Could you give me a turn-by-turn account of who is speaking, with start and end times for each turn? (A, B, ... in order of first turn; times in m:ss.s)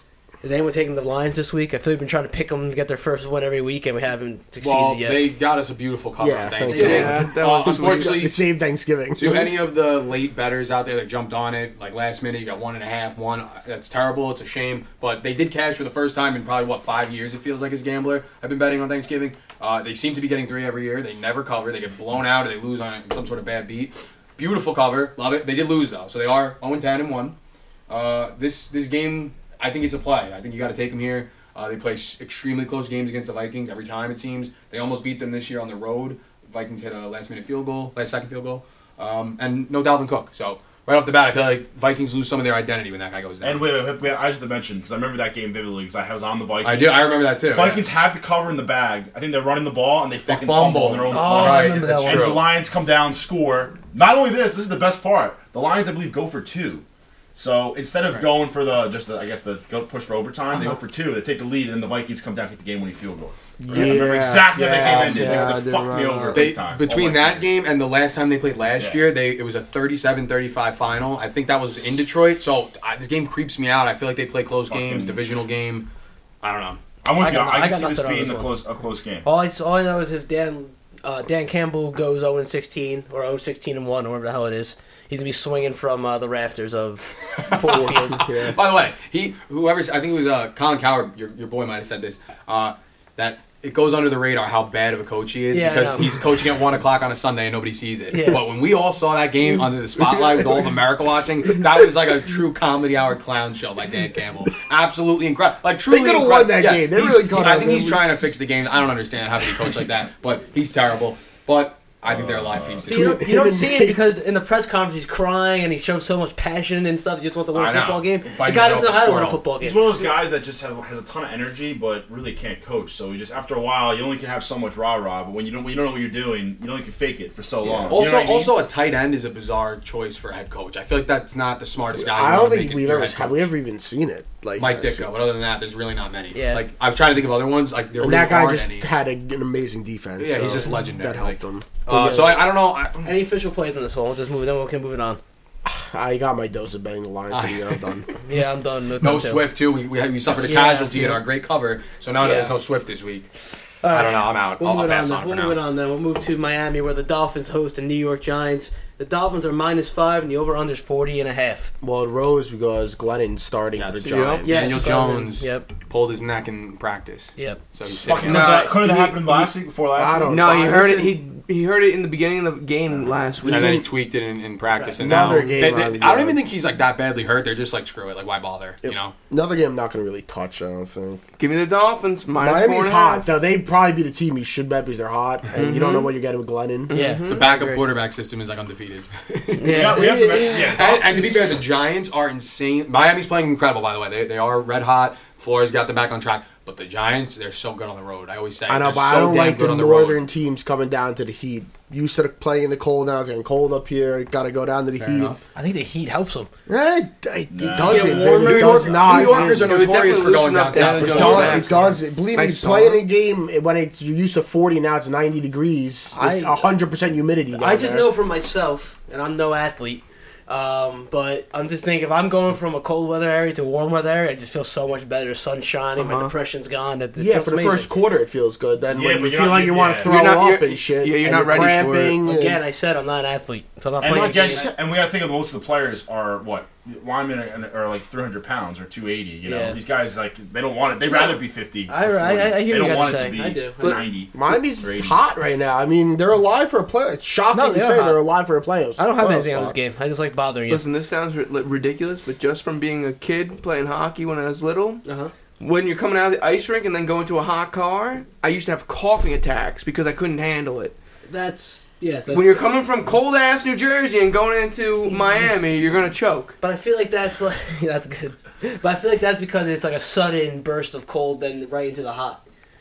0:00.4-0:05.2 A
0:04.6-0:08.4 B
0:06.2-0:09.4 C
0:06.7-0:08.2 D
0:06.7-0:07.1 A
0:09.1-0:27.4 B
0:27.9-0:43.7 B
0:43.4-0:56.8 E
0:46.6-0:47.9 B
0:50.3-0:52.4 B
0:51.1-0:52.4 A
0:57.4-1:07.5 E
1:03.6-1:06.5 C
1:04.8-1:05.5 B
1:06.3-1:15.9 B
1:08.8-1:09.1 E
1:14.7-1:15.2 E
1:16.4-1:16.8 B
1:17.0-1:19.3 E
1:17.2-1:18.5 A
1:19.2-1:28.3 A
1:27.4-1:53.2 B
1:27.6-1:28.6 C
1:35.5-1:36.1 A
1:38.1-1:38.4 A
1:40.2-1:40.6 C
1:45.9-1:48.2 C
1:52.0-1:52.9 E
1:52.9-1:54.0 C
1:52.9-1:59.8 A
1:57.5-1:59.5 B
1:59.6-2:08.6 E
2:07.6-2:08.0 A
2:07.9-2:13.5 B
2:12.0-2:15.1 C
2:14.6-2:18.9 B
2:16.3-2:16.6 A
2:18.0-2:22.5 C
2:20.2-2:23.2 B
2:23.0-2:25.2 A
2:25.6-2:28.1 C
2:27.3-2:27.9 B
2:28.2-2:29.4 A
2:29.0-2:35.6 B
2:30.5-2:31.2 A
2:32.2-2:32.5 A
2:33.8-2:41.7 A
2:41.8-2:44.8 C
2:43.7-2:48.6 B
2:44.1-2:44.6 D
2:44.4-2:45.7 A
2:47.9-2:50.4 E
2:48.2-2:49.0 D
2:48.8-2:51.2 C
2:50.3-2:53.8 D
2:53.4-2:53.8 C
2:53.4-2:59.1 B
2:54.7-2:55.0 A
2:55.0-2:56.4 C
2:58.8-3:01.2 C
3:01.4-3:03.3 D
3:02.4-3:07.0 C
3:05.6-3:06.1 A
3:05.6-3:05.8 D
3:06.9-3:07.4 D
3:06.9-3:07.8 A
3:07.3-3:09.8 B
3:09.6-3:10.6 A
3:09.7-3:11.5 E
3:09.9-3:11.4 C
3:10.6-3:20.2 B
3:18.7-3:25.4 C
3:25.0-3:25.4 B
3:25.6-3:26.5 A
3:26.7-3:29.8 C
3:27.5-3:29.1 E
3:27.8-3:29.6 A
3:28.1-3:32.0 B
3:29.5-3:33.0 D
3:30.7-3:38.1 C
3:36.1-3:36.6 A
3:37.6-3:47.9 A
3:46.0-3:46.3 D
3:47.2-3:52.6 C
3:48.9-3:50.2 E
3:50.0-3:52.2 D
3:52.2-3:54.7 A
3:54.0-4:05.2 E
3:54.0-3:54.7 C
3:59.4-3:59.8 A
4:01.9-4:04.0 A
4:04.3-4:09.8 C
4:07.5-4:08.2 A
4:09.0-4:10.8 A
4:10.7-4:15.0 D
4:15.0-4:15.3 A
4:15.6-4:21.0 D
4:21.3-4:22.7 A
4:22.3-4:26.6 D
4:26.6-4:32.4 A